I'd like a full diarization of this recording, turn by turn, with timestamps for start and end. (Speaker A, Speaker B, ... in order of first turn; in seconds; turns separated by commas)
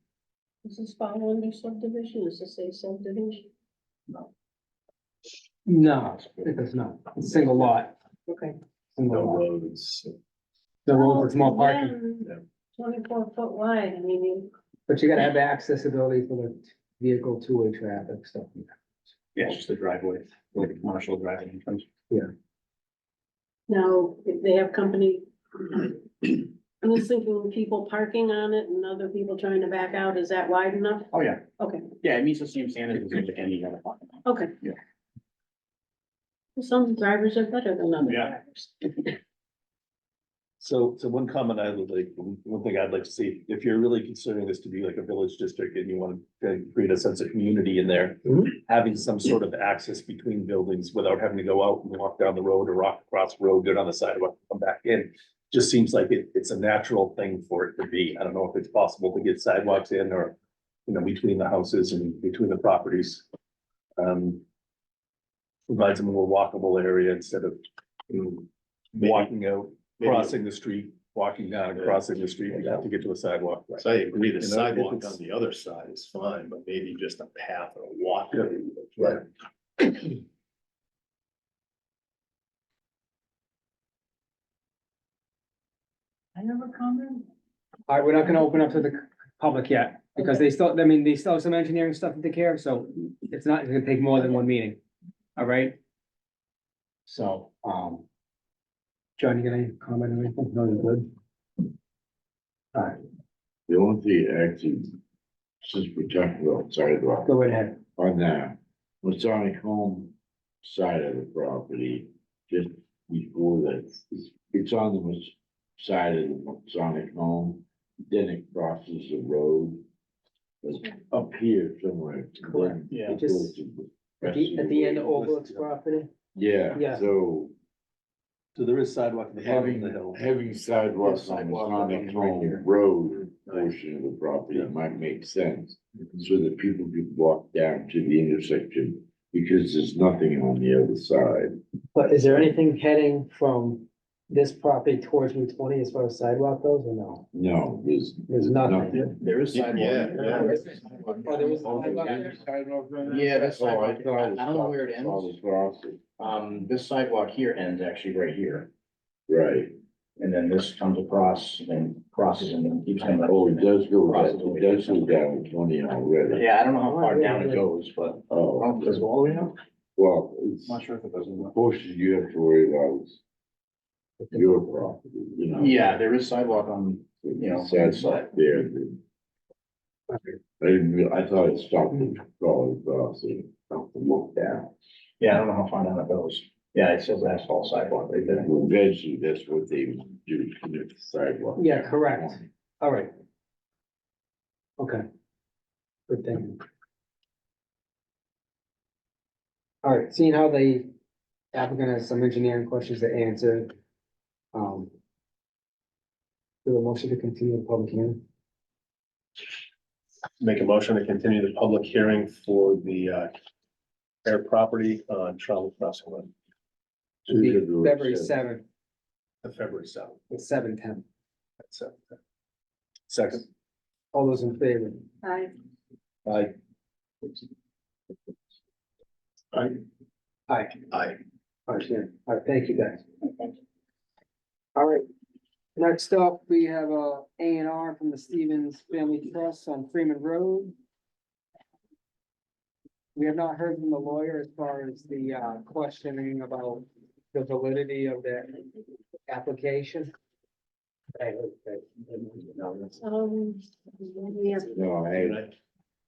Speaker A: 0.7-3.1, Speaker B: 5.7-7.9, Speaker B: 9.0-9.4, Speaker C: 9.1-9.4, Speaker B: 10.9-11.9, Speaker A: 11.0-14.4, Speaker B: 14.9-18.8, Speaker D: 19.4-21.8, Speaker A: 23.7-25.8, Speaker A: 26.8-31.8, Speaker D: 31.1-31.4, Speaker D: 32.0-34.8, Speaker A: 36.7-38.7, Speaker E: 40.6-60.4, Speaker E: 60.9-63.2, Speaker E: 64.0-64.4, Speaker E: 65.7-67.6, Speaker E: 68.1-68.4, Speaker C: 69.0-69.3, Speaker E: 69.0-75.2, Speaker C: 69.9-70.4, Speaker C: 71.7-72.9, Speaker C: 73.8-77.4, Speaker A: 75.7-78.2, Speaker C: 78.0-79.2, Speaker B: 87.9-94.8, Speaker B: 95.4-95.8, Speaker B: 97.1-98.0, Speaker B: 99.2-101.1, Speaker B: 102.7-103.0, Speaker F: 103.7-105.0, Speaker F: 105.6-107.3, Speaker B: 107.3-107.8, Speaker F: 108.0-119.8, Speaker F: 120.6-124.8, Speaker B: 122.4-123.6, Speaker B: 124.2-126.1, Speaker E: 124.5-125.7, Speaker F: 126.3-127.5, Speaker B: 126.7-127.1, Speaker E: 128.6-130.2, Speaker F: 129.4-141.6, Speaker D: 131.0-132.6, Speaker B: 141.9-147.3, Speaker F: 147.3-149.1, Speaker B: 148.3-149.1, Speaker D: 149.0-152.1, Speaker C: 149.6-150.4, Speaker B: 150.4-150.6, Speaker B: 151.2-152.4, Speaker F: 151.4-156.0, Speaker D: 153.0-155.3, Speaker D: 156.2-158.7, Speaker F: 159.3-159.8, Speaker D: 160.2-165.2, Speaker F: 163.2-166.5, Speaker D: 166.3-169.6, Speaker B: 166.9-167.7, Speaker F: 168.3-169.1, Speaker F: 170.0-170.8, Speaker D: 170.7-171.5, Speaker F: 171.4-173.2, Speaker F: 174.3-176.0, Speaker D: 175.6-178.3, Speaker F: 177.3-179.0, Speaker F: 180.6-184.7, Speaker D: 185.2-188.5, Speaker F: 188.2-192.5, Speaker B: 191.6-193.1, Speaker B: 194.8-195.1, Speaker B: 196.1-196.6, Speaker B: 199.8-200.9, Speaker B: 201.5-203.7, Speaker B: 204.5-204.9, Speaker B: 206.7-208.2, Speaker C: 210.4-213.3, Speaker C: 214.2-216.3, Speaker A: 214.4-214.7, Speaker A: 215.3-216.1, Speaker F: 217.2-218.4, Speaker B: 217.3-218.7, Speaker A: 219.4-219.8, Speaker C: 219.4-220.2, Speaker B: 220.3-221.1, Speaker B: 224.1-225.1, Speaker B: 230.5-230.8, Speaker B: 231.7-233.1, Speaker B: 234.8-235.1, Speaker B: 235.8-240.7, Speaker B: 243.2-248.6, Speaker B: 249.3-250.1, Speaker B: 251.2-252.8, Speaker A: 253.0-254.7, Speaker F: 254.7-255.5